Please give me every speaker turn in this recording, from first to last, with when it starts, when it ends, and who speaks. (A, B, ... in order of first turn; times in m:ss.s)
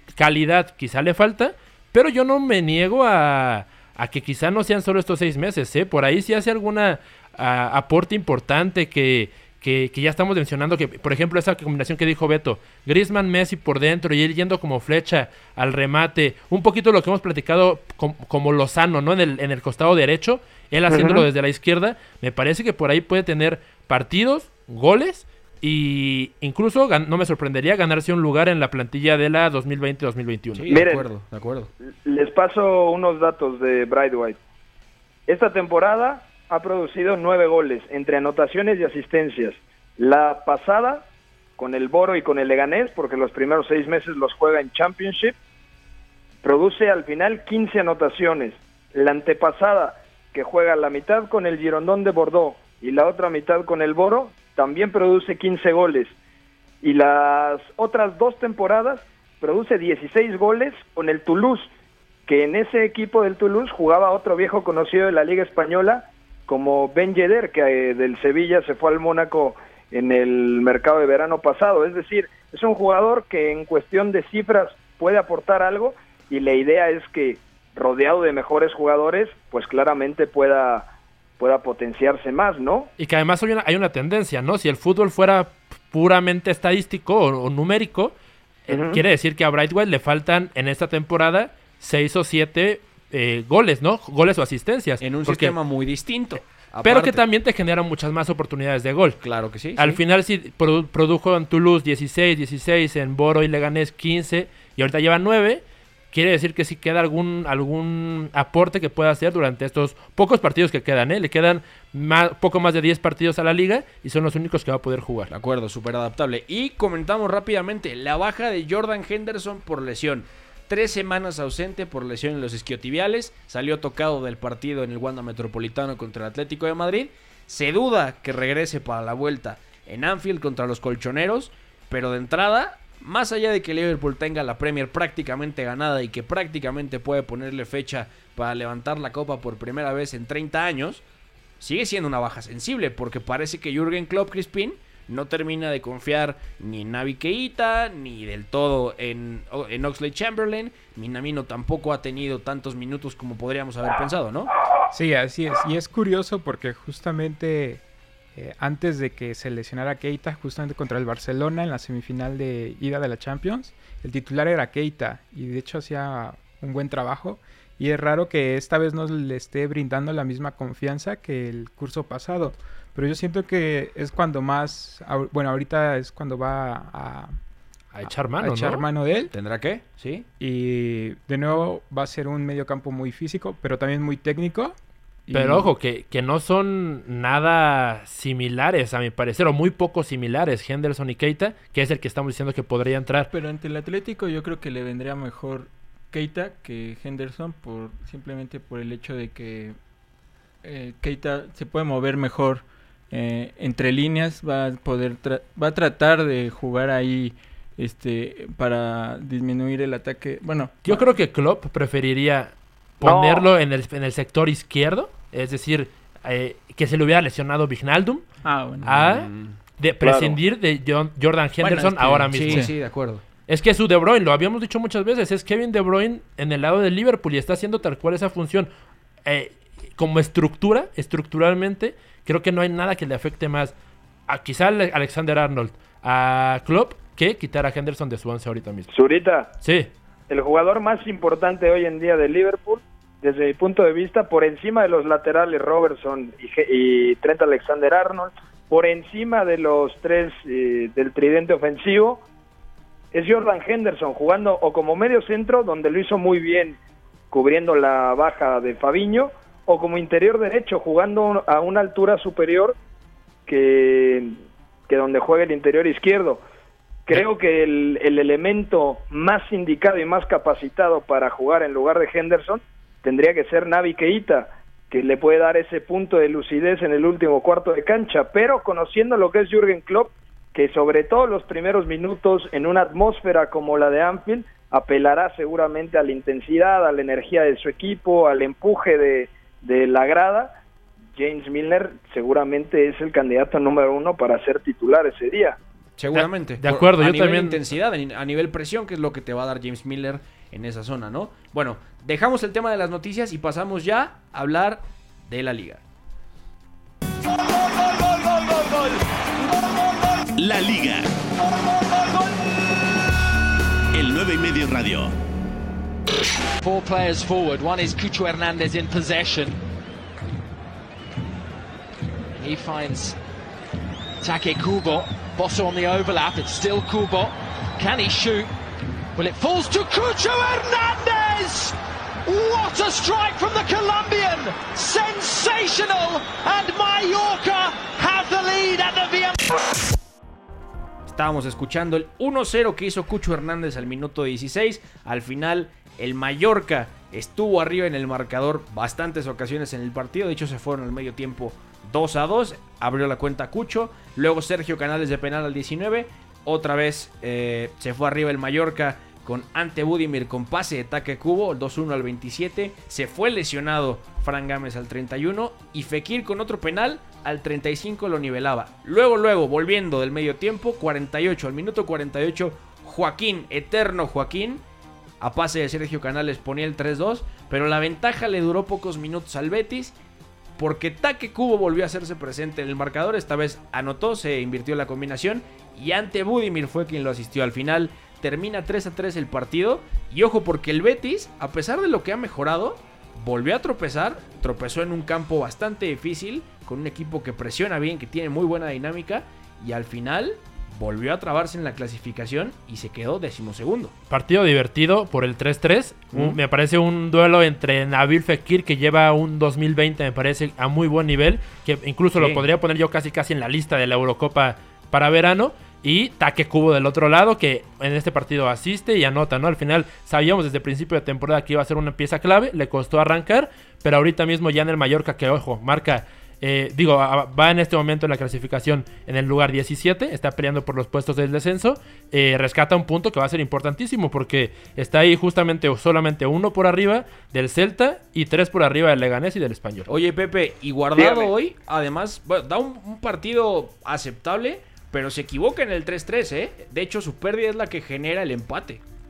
0:00.2-0:30.7 A
0:20.9-0:21.2 B
0:30.6-0:31.7 C
0:30.7-0:31.1 B
0:32.0-0:34.4 B
0:35.3-0:41.0 B
0:41.6-0:45.4 B
0:46.4-0:56.1 B
0:56.8-1:01.7 B
1:02.3-1:20.9 B
1:21.4-1:22.9 B
1:23.0-1:28.2 A
1:28.7-1:35.6 A
1:28.7-1:29.0 B
1:35.0-1:37.2 C
1:36.8-1:39.2 A
1:39.2-1:40.0 C
1:39.8-1:55.3 A
1:55.3-2:21.0 C
2:21.6-2:34.5 C
2:34.9-2:37.8 D
2:38.4-2:57.4 D
2:57.9-2:58.8 A
2:58.0-2:59.3 D
2:59.3-3:00.3 C
3:00.4-3:04.8 D
3:05.3-3:05.7 D
3:05.3-3:13.3 A
3:13.3-3:19.8 E
3:20.6-3:31.2 E
3:30.8-3:38.3 A
3:33.0-3:33.5 B
3:38.4-3:39.0 E
3:38.8-3:42.7 A
3:39.0-3:39.6 C
3:40.0-3:40.4 B
3:41.6-3:43.2 C
3:42.5-3:42.8 E
3:43.5-3:48.7 A
3:49.3-3:53.7 A
3:54.3-3:58.9 A
3:58.9-3:59.5 B
3:59.6-3:59.9 A
4:00.3-4:12.2 B
4:13.1-4:16.8 B
4:17.3-4:22.8 B
4:23.5-4:26.4 B
4:27.1-4:50.5 B
4:51.2-4:55.6 B
4:56.0-5:05.8 C
4:56.1-4:57.6 A
5:08.4-5:08.8 F
5:10.4-5:11.1 G
5:13.9-5:15.1 G
5:16.6-5:19.6 F
5:22.4-5:23.2 F
5:24.2-5:28.5 F
5:29.2-5:39.6 F
5:41.1-6:14.6 C
6:15.2-6:20.0 C
6:20.6-6:43.9 C
6:44.1-7:19.9 A
6:46.1-6:46.4 C
6:52.2-6:52.5 C
7:19.9-7:28.8 C
7:21.0-7:21.3 B